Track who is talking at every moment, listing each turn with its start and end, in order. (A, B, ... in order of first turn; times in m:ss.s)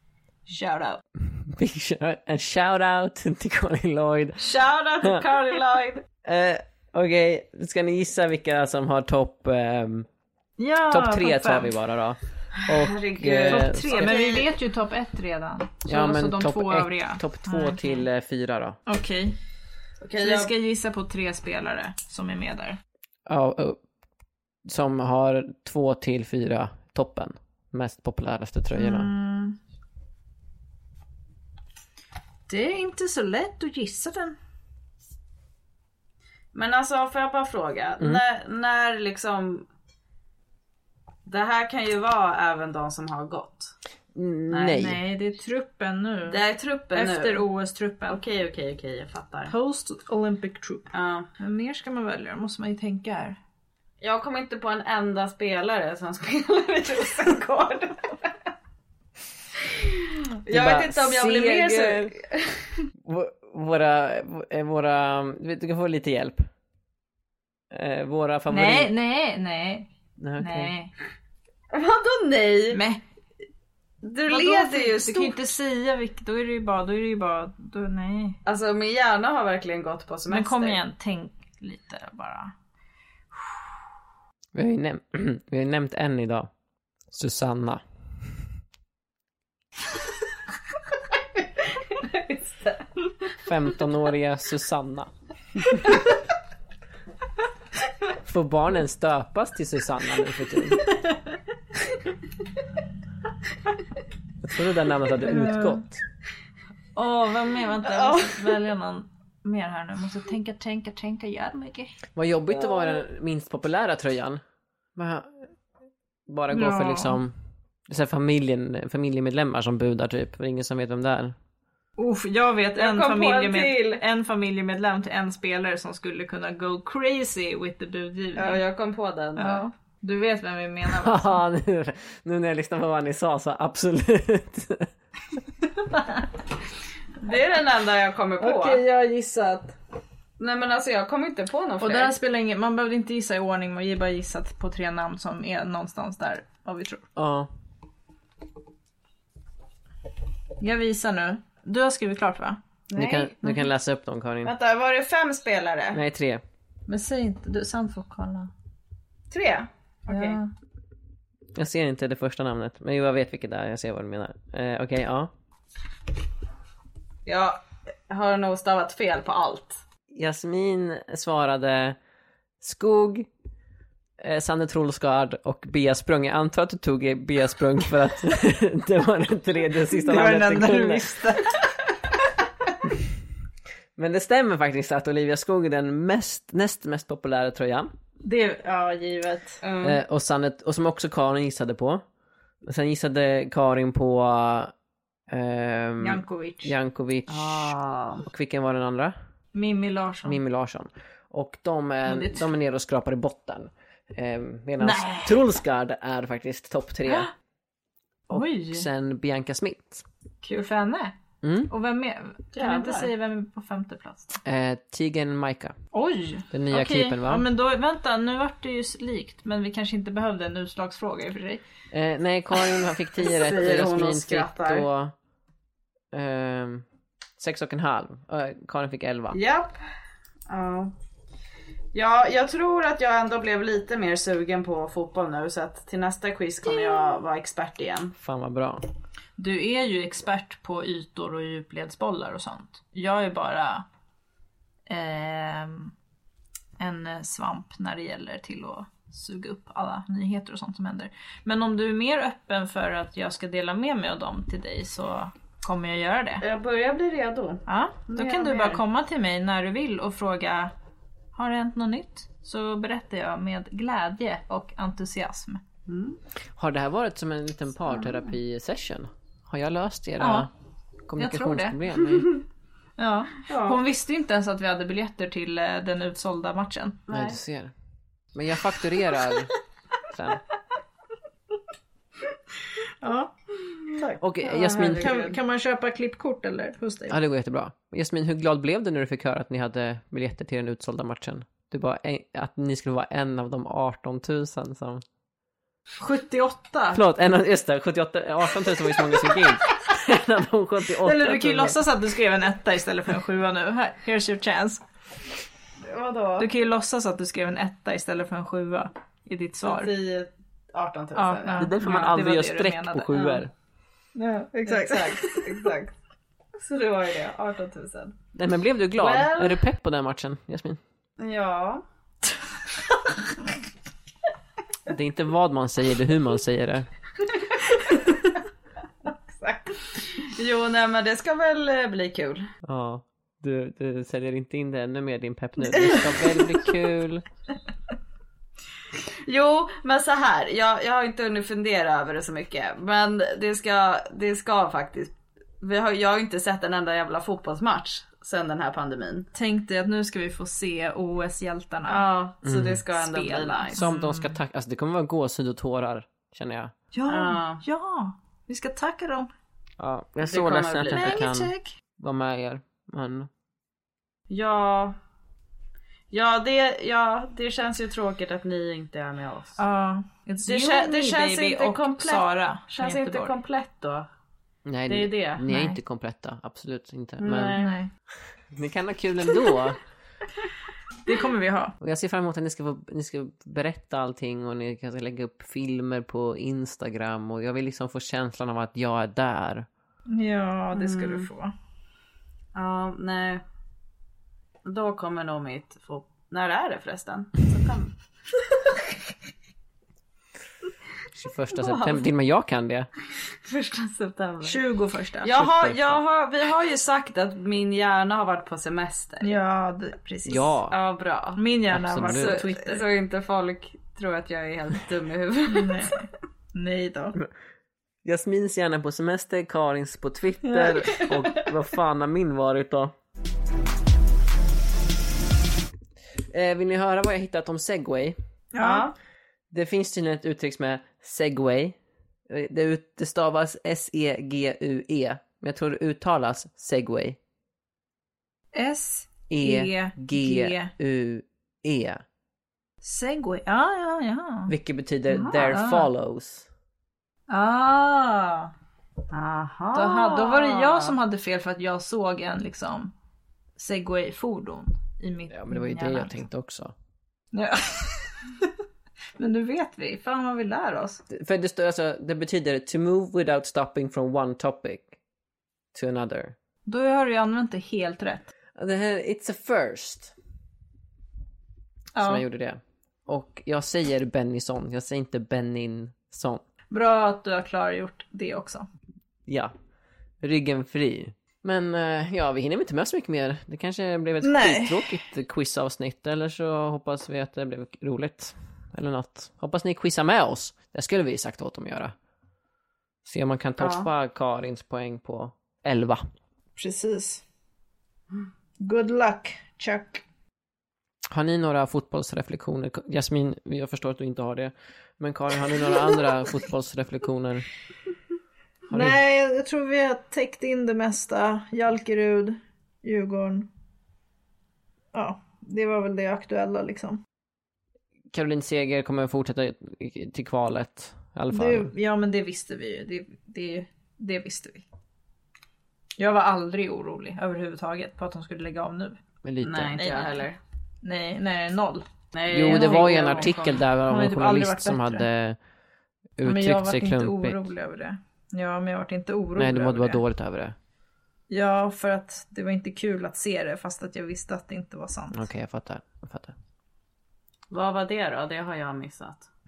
0:00.5-0:01.0 A
0:01.2-0:04.5 B
0:04.4-0:06.0 C
0:06.2-0:10.1 B
0:10.6-0:11.7 A
0:10.9-0:14.2 B
0:12.7-0:14.5 C
0:13.5-0:18.0 A
0:15.9-0:18.8 B
0:18.9-0:19.4 A
0:20.0-0:20.5 C
0:20.2-0:22.8 A
0:23.3-0:23.8 B
0:24.6-0:29.1 B
0:28.8-0:29.6 A
0:32.5-0:34.4 A
0:36.5-0:39.7 C
0:41.3-0:43.7 C
0:44.2-0:45.0 B
0:44.5-0:44.8 C
0:44.8-0:46.4 A
0:46.3-0:47.5 C
0:46.9-0:48.2 A
0:48.1-0:49.5 C
0:49.5-0:53.4 A
0:50.9-0:51.3 C
0:54.0-0:58.4 C
0:59.6-1:02.6 C
1:00.5-1:02.1 B
1:03.0-1:06.5 B
1:07.7-1:08.9 B
1:08.5-1:10.9 A
1:10.2-1:10.7 B
1:11.7-1:12.8 C
1:12.7-1:13.0 A
1:14.0-1:15.5 C
1:14.3-1:18.4 A
1:18.4-1:20.8 C
1:20.3-1:22.5 A
1:24.5-1:26.5 B
1:27.1-1:27.8 B
1:31.7-1:32.9 C
1:33.4-1:35.1 B
1:38.2-1:40.8 B
1:44.4-1:46.0 B
1:45.2-1:45.8 A
1:47.0-1:52.0 A
1:47.8-1:48.6 C
1:52.2-1:54.4 B
1:52.6-1:53.0 C
1:55.0-1:55.5 B
1:56.3-1:57.4 B
1:56.5-1:57.2 A
1:57.9-2:01.4 B
2:02.0-2:08.6 A
2:02.8-2:04.0 C
2:08.4-2:09.6 C
2:09.4-2:11.4 A
2:11.0-2:14.9 B
2:17.2-2:18.8 C
2:18.4-2:19.8 A
2:20.4-2:22.1 C
2:21.8-2:27.1 A
2:27.2-2:27.5 B
2:30.6-2:32.6 A
2:32.9-2:33.7 C
2:33.0-2:34.5 B
2:34.4-2:36.0 C
2:35.9-2:36.4 B
2:36.9-2:38.5 A
2:39.3-2:40.4 C
2:40.1-2:40.5 A
2:41.5-2:45.3 B
2:47.3-2:49.8 C
2:50.1-2:52.0 B
2:52.6-2:53.3 B
2:54.2-3:01.1 B
3:00.0-3:01.6 A
3:04.0-3:07.9 B
3:08.2-3:09.6 A
3:09.6-3:10.0 C
3:09.8-3:12.0 B
3:12.6-3:14.7 B
3:15.3-3:19.2 B
3:16.0-3:16.7 A
3:17.3-3:18.2 C
3:19.5-3:20.4 A
3:20.2-3:27.3 B
3:22.1-3:22.5 A
3:24.8-3:25.4 A
3:28.3-3:30.0 B
3:28.3-3:28.9 A
3:30.4-3:31.2 A
3:31.4-3:31.7 B
3:31.7-3:34.4 A
3:32.6-3:33.1 C
3:34.4-3:35.8 B
3:35.9-3:41.6 A
3:36.5-3:37.5 B
3:41.9-3:45.1 B
3:43.2-3:44.9 C
3:46.1-3:46.8 B
3:47.4-3:49.4 B
3:49.3-3:49.8 C
3:50.5-3:50.9 C
3:51.9-3:58.2 C
3:58.2-3:58.9 B
3:59.4-4:03.8 A
4:04.9-4:05.9 A
4:06.8-4:16.4 A
4:16.4-4:18.8 C
4:17.7-4:20.7 A
4:21.3-4:25.6 A
4:25.9-4:26.2 C
4:26.6-4:30.5 B
4:30.2-4:30.5 A
4:31.1-4:32.3 B
4:31.2-4:31.8 A
4:33.0-4:37.0 A
4:33.5-4:33.8 C
4:37.1-4:37.4 C
4:37.1-4:37.7 B
4:38.3-4:39.5 B
4:40.1-4:40.4 B
4:43.0-4:43.3 A
4:43.9-4:45.4 C
4:44.2-4:45.1 B
4:45.0-4:47.2 A
4:47.1-4:55.0 B
4:56.0-4:57.0 A
4:56.9-5:01.8 B
5:01.0-5:04.8 A
5:05.9-5:06.5 C
5:06.4-5:09.9 A
5:09.6-5:12.2 C
5:11.2-5:13.4 A
5:11.6-5:13.5 B
5:14.2-5:15.6 A
5:14.7-5:15.9 C
5:16.6-5:18.2 C
5:18.4-5:20.8 B
5:19.0-5:19.6 C
5:21.2-5:21.8 C
5:24.9-5:26.9 B
5:29.4-5:32.5 C
5:32.6-5:37.2 B
5:39.0-5:49.3 C
5:49.3-5:52.0 A
5:51.9-5:53.8 C
5:52.4-5:52.8 B
5:53.0-5:54.4 A
5:53.8-5:56.7 B
5:56.9-5:59.3 A
5:57.1-5:57.6 C
5:59.8-6:03.3 B
6:00.2-6:01.3 C
6:00.9-6:01.7 A
6:04.3-6:05.0 C
6:06.1-6:09.6 C
6:09.6-6:13.3 A
6:10.5-6:14.1 C
6:14.7-6:17.6 B
6:14.9-6:15.4 C
6:15.5-6:15.8 A
6:17.2-6:17.7 C
6:17.6-6:17.9 A
6:18.5-6:19.8 B
6:21.0-6:21.8 A
6:21.8-6:29.7 B
6:30.1-6:31.5 A
6:30.7-6:31.3 C
6:32.6-6:33.4 C
6:34.6-6:38.0 C
6:41.1-6:42.9 B
6:41.5-6:42.0 C
6:43.4-6:44.6 C
6:44.4-6:45.3 A
6:45.2-6:49.3 C
6:45.4-6:46.0 B
6:49.2-6:50.5 A
6:50.2-6:50.8 B
6:50.7-6:51.4 C
6:51.4-6:52.8 A
6:51.7-6:52.4 B
6:52.0-6:55.9 C
6:55.5-6:57.2 A
6:58.0-7:02.9 B
7:00.4-7:01.1 A
7:06.3-7:08.2 B
7:08.5-7:08.9 A
7:08.6-7:09.0 C
7:09.5-7:11.8 B
7:12.3-7:17.2 B
7:18.5-7:20.7 A
7:19.3-7:22.0 B
7:22.8-7:24.5 A
7:24.5-7:26.5 B
7:25.1-7:25.9 A
7:27.3-7:28.5 A
7:29.1-7:31.0 C
7:29.7-7:32.9 A
7:33.6-7:36.2 A
7:35.3-7:36.7 B
7:37.3-7:38.5 A
7:39.2-7:41.0 A
7:41.1-7:44.9 B
7:45.7-7:46.4 B
7:46.7-7:48.3 A
7:48.6-7:50.2 B
7:52.0-7:52.2 A
7:52.0-7:56.4 B
7:56.7-7:58.7 A
7:59.3-7:59.5 B
8:00.2-8:11.9 B
8:04.2-8:05.0 A
8:13.0-8:16.0 B
8:13.6-8:13.9 C
8:16.6-8:17.2 A
8:18.6-8:20.0 A
8:21.1-8:27.5 B
8:28.7-8:29.0 B
8:28.7-8:33.5 A
8:34.9-8:37.0 A
8:38.1-8:41.7 B
8:41.3-8:44.7 A
8:46.0-8:49.0 A
8:49.2-8:49.8 B
8:49.4-8:50.4 C
8:49.8-8:50.2 A
8:50.8-8:55.1 A
8:52.1-8:53.6 C
8:52.3-8:55.4 B
8:56.2-8:57.4 B
8:56.2-9:00.0 A
8:59.4-9:00.6 B
9:01.3-9:05.3 A
9:05.1-9:06.4 B
9:07.5-9:09.3 C